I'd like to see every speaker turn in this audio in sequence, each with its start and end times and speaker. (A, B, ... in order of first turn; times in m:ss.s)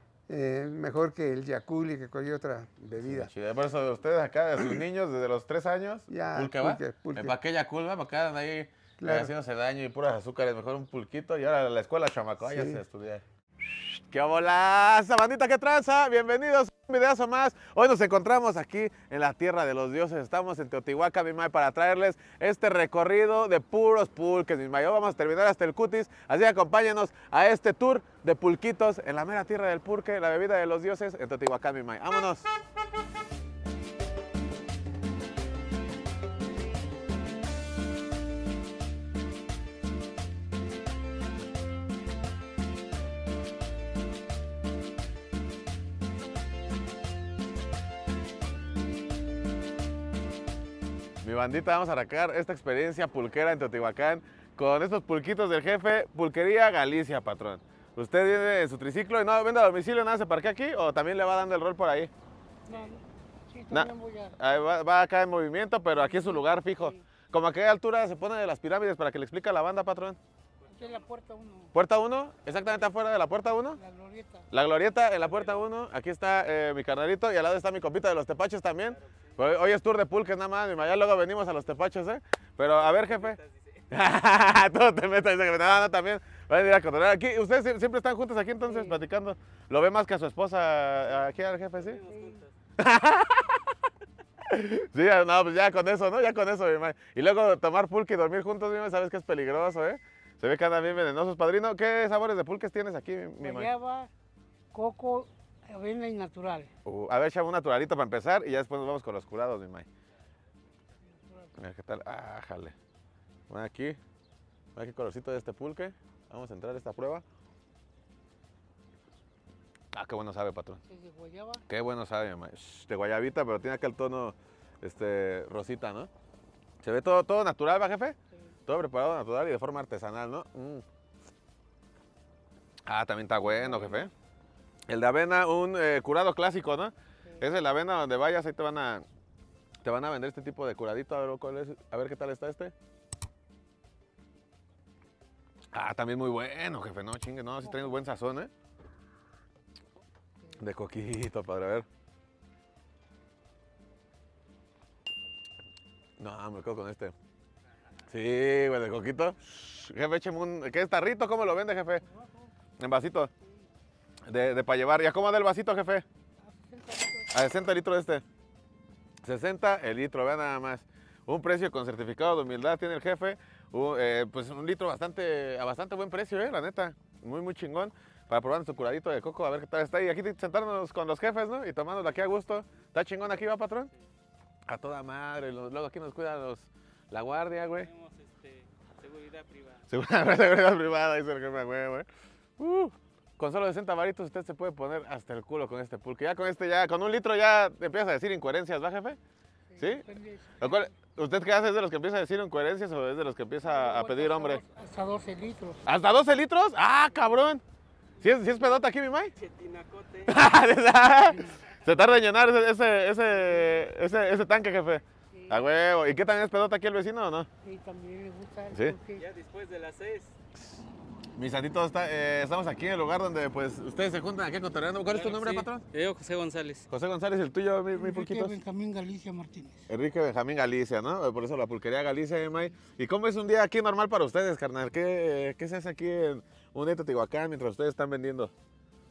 0:00.3-0:03.3 A
0:03.0-0:32.5 B
0:06.1-0:07.4 A
0:09.0-0:09.3 A
0:12.5-0:12.8 A
0:51.2-1:02.1 B
1:02.7-1:04.4 C
1:03.7-1:10.2 B
1:06.0-1:07.0 C
1:10.7-1:11.7 C
1:10.7-1:11.1 D
1:11.7-1:13.8 B
1:13.8-1:14.5 C
1:14.5-1:23.4 B
1:22.8-1:23.8 D
1:23.9-1:32.0 B
1:28.6-1:29.0 C
1:31.7-1:32.5 D
1:32.1-1:32.4 C
1:32.8-1:33.6 B
1:34.5-1:43.7 B
1:43.4-1:44.1 C
1:44.7-1:46.7 C
1:46.8-1:49.9 B
1:51.2-1:51.6 C
1:51.6-1:52.8 B
1:53.5-1:54.0 B
1:54.8-1:57.2 B
1:59.9-2:00.8 B
2:00.9-2:01.6 C
2:01.7-2:06.1 B
2:06.8-2:10.8 B
2:12.9-2:14.1 B
2:13.5-2:14.1 C
2:14.9-2:19.0 B
2:19.8-2:22.7 B
2:25.7-2:28.5 B
2:27.6-2:27.9 C
2:30.6-2:31.9 B
2:36.2-2:37.1 B
2:38.1-2:42.0 B
2:42.0-2:42.5 C
2:42.8-2:43.3 B
2:44.3-2:46.0 B
2:46.5-2:47.3 C
2:47.3-2:48.2 B
2:49.2-3:03.9 B
3:04.7-3:07.9 B
3:07.8-3:09.8 D
3:09.9-3:12.1 B
3:12.6-3:19.2 B
3:19.7-3:21.0 C
3:19.8-3:20.0 B
3:20.6-3:24.6 B
3:23.6-3:25.8 C
3:25.9-3:27.6 B
3:28.2-3:29.3 B
3:29.4-3:30.4 D
3:30.3-3:37.5 B
3:31.3-3:31.6 C
3:35.3-3:35.6 C
3:37.6-3:39.3 C
3:39.2-3:40.3 D
3:41.4-3:45.8 B
3:45.1-3:46.9 D
3:46.9-3:48.6 B
3:48.0-3:49.9 C
3:49.9-3:58.5 B